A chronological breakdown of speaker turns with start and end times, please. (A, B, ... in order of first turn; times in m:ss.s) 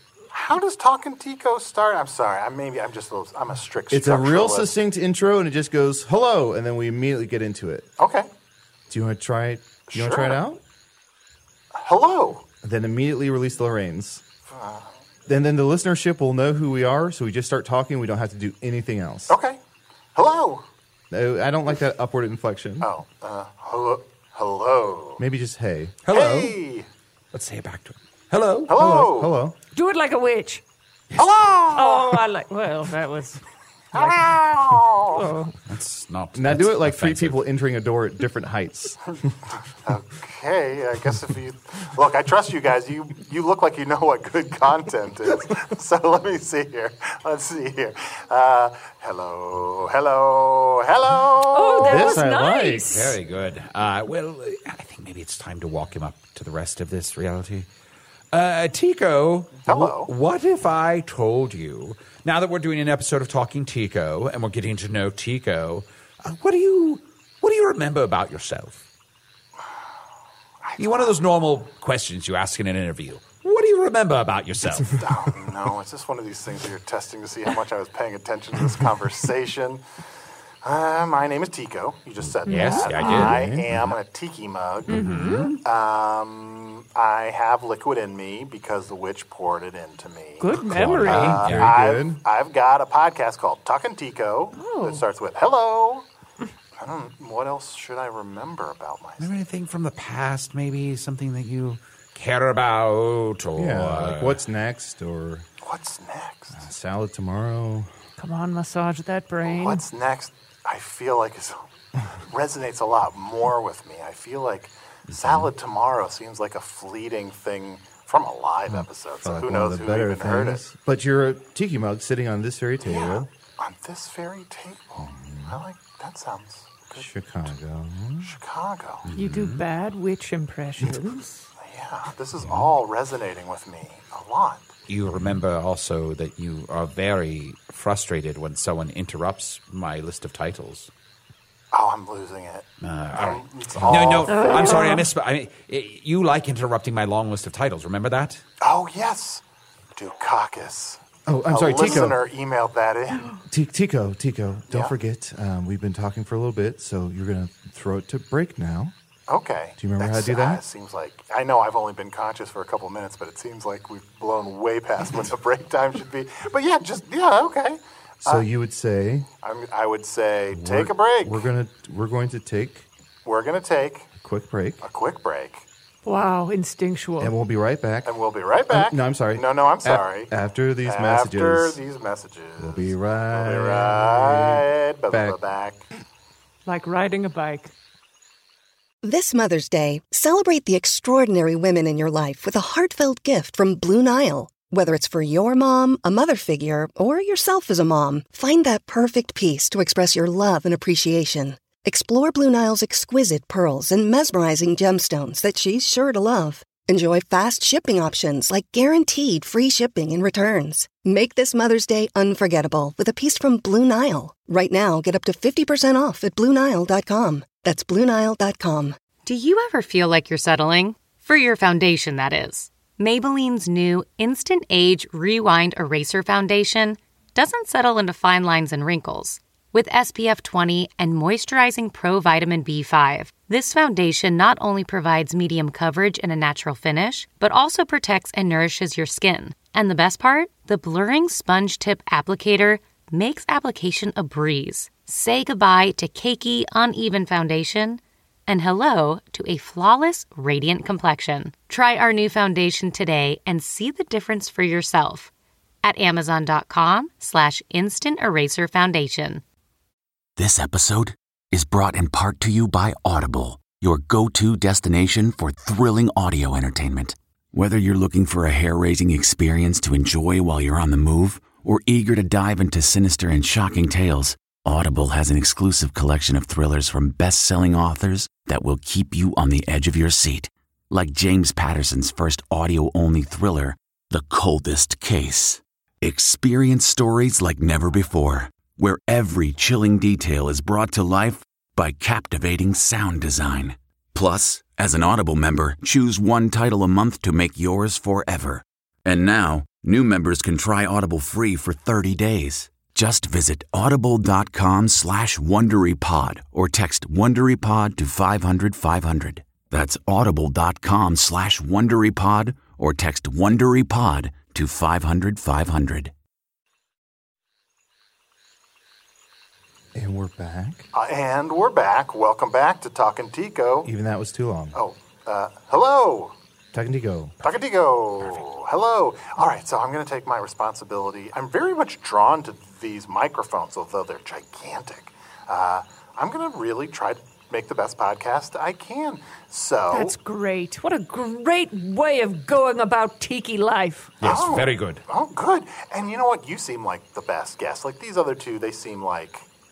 0:00.3-0:04.7 A
0:03.9-0:07.9 B
0:08.0-0:08.3 A
0:08.9-0:10.6 B
0:09.9-0:10.4 A
0:11.7-0:12.5 A
0:12.6-0:14.2 B
0:14.5-0:14.9 A
0:15.3-0:19.4 B
0:19.3-0:19.6 A
0:20.2-0:20.6 A
0:21.1-0:22.9 B
0:22.8-0:25.2 A
0:25.2-0:26.0 B
0:26.1-0:26.6 C
0:26.1-0:26.9 A
0:27.3-0:28.7 C
0:28.7-0:29.4 A
0:28.7-0:29.6 B
0:29.7-0:30.6 D
0:31.2-0:32.2 A
0:31.7-0:33.4 D
0:33.9-0:35.3 A
0:35.1-0:35.5 D
0:35.7-0:37.4 C
0:36.4-0:39.3 B
0:39.8-0:52.2 A
0:51.5-0:53.2 D
0:51.8-0:53.0 B
0:52.9-0:57.7 C
0:58.3-1:08.8 C
0:59.6-1:00.1 A
1:10.6-1:11.2 A
1:10.8-1:15.0 C
1:14.9-1:19.8 A
1:20.6-1:36.1 A
1:22.4-1:23.9 C
1:22.5-1:23.3 D
1:23.0-1:23.7 B
1:24.9-1:25.6 C
1:24.9-1:25.5 D
1:30.4-1:31.4 D
1:30.6-1:31.7 C
1:31.1-1:32.2 B
1:34.6-1:35.0 D
1:36.8-1:39.3 A
1:39.2-1:44.4 C
1:43.6-1:45.5 B
1:45.6-1:46.6 A
1:46.6-1:47.9 B
1:48.2-1:49.8 D
1:49.4-1:51.6 A
1:52.3-2:00.6 A
1:58.7-2:03.3 B
2:02.8-2:07.1 A
2:05.0-2:05.6 B
2:06.9-2:08.3 B
2:08.2-2:09.1 A
2:09.1-2:09.6 C
2:09.2-2:11.5 D
2:11.6-2:14.7 A
2:14.9-2:20.9 C
2:21.7-2:24.8 A
2:22.8-2:28.4 C
2:24.3-2:25.1 D
2:28.6-2:29.4 A
2:30.0-2:33.4 A
2:31.3-2:32.2 B
2:33.5-2:39.0 B
2:39.3-2:48.4 A
2:39.8-2:40.6 B
2:48.2-2:49.3 B
2:49.4-2:51.4 A
2:50.5-2:52.9 B
2:53.2-2:54.1 A
2:54.2-2:54.8 B
2:54.8-2:55.6 A
2:56.0-2:57.3 D
2:57.2-2:58.1 B
2:58.0-3:00.3 A
2:58.7-3:01.8 B
3:00.8-3:05.8 A
3:02.6-3:05.4 B
3:06.7-3:07.7 D
3:09.0-3:39.0 E
3:39.2-4:15.3 F
4:15.8-4:19.4 F
4:20.4-5:16.1 G
5:20.0-5:20.9 B
5:20.9-5:23.9 A
5:23.8-5:24.8 B
5:24.8-5:26.4 A
5:26.7-5:27.5 B
5:27.4-5:40.2 A
5:39.9-5:44.2 D
5:44.2-5:45.0 C
5:44.2-5:49.5 A